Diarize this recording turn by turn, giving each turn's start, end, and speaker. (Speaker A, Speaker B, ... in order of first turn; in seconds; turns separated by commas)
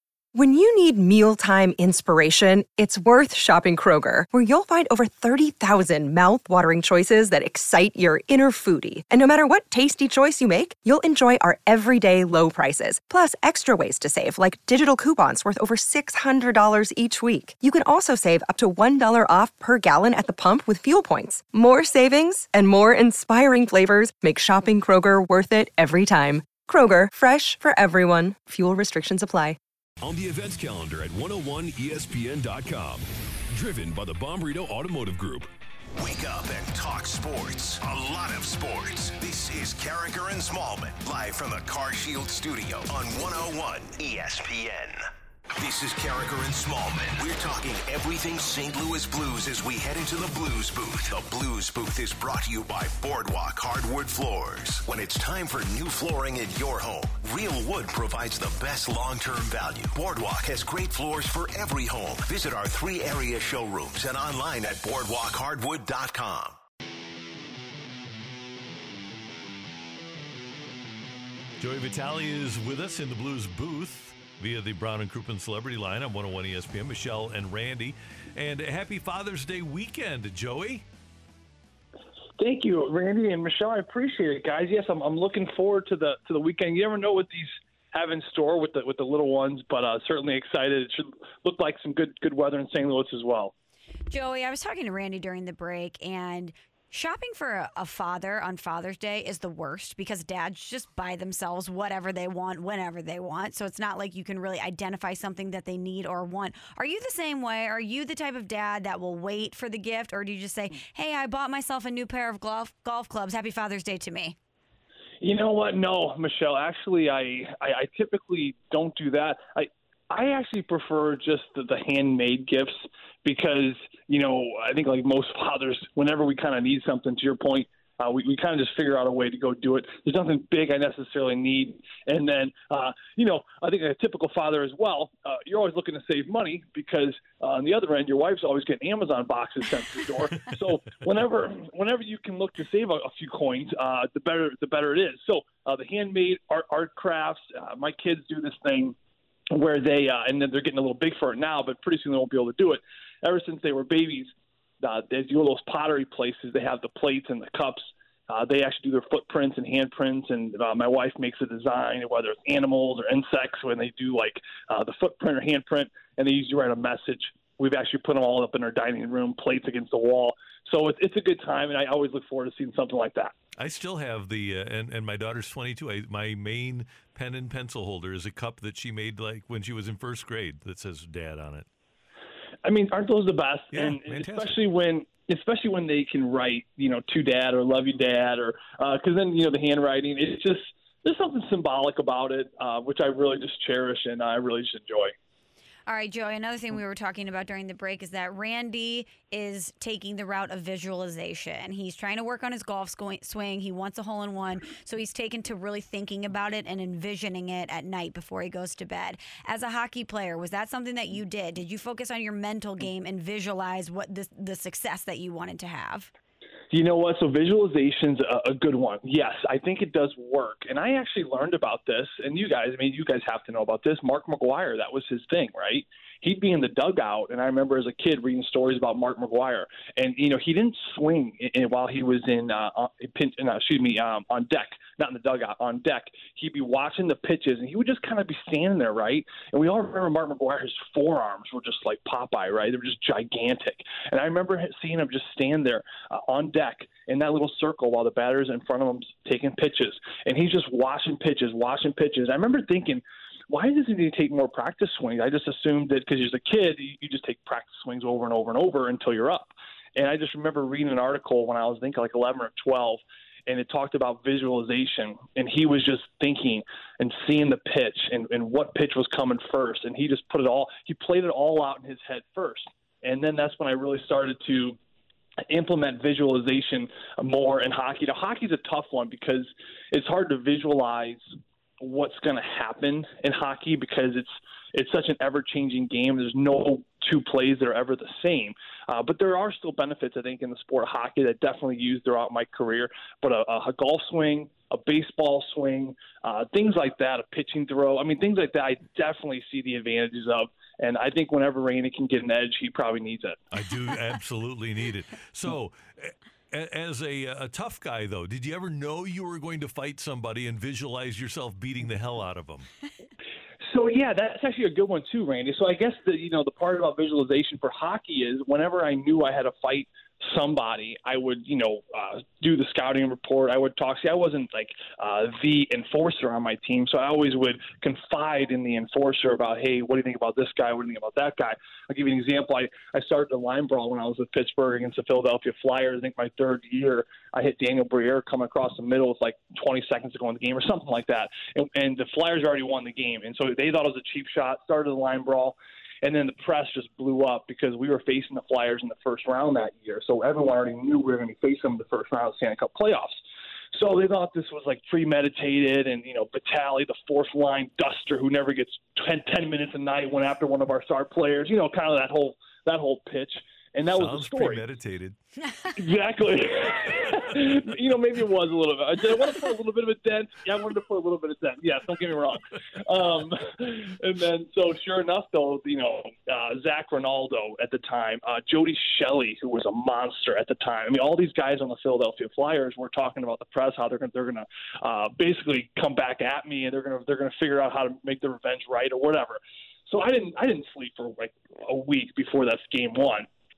Speaker A: 0.3-29.6, Speaker B: 30.0-35.5, Speaker C: 36.0-45.0, Speaker C: 45.6-66.6, Speaker D: 71.6-80.8, Speaker E: 82.4-93.5, Speaker F: 94.1-114.4, Speaker E: 115.2-148.9, Speaker E: 149.5-173.3, Speaker D: 173.6-181.7, Speaker E: 182.6-195.1, Speaker D: 183.7-184.5, Speaker F: 195.9-216.1, Speaker E: 216.7-274.8, Speaker E: 275.5-281.2, Speaker E: 281.8-303.4, Speaker D: 303.5-312.7, Speaker E: 313.7-353.2, Speaker E: 353.7-364.6, Speaker D: 363.9-365.2, Speaker E: 365.8-393.3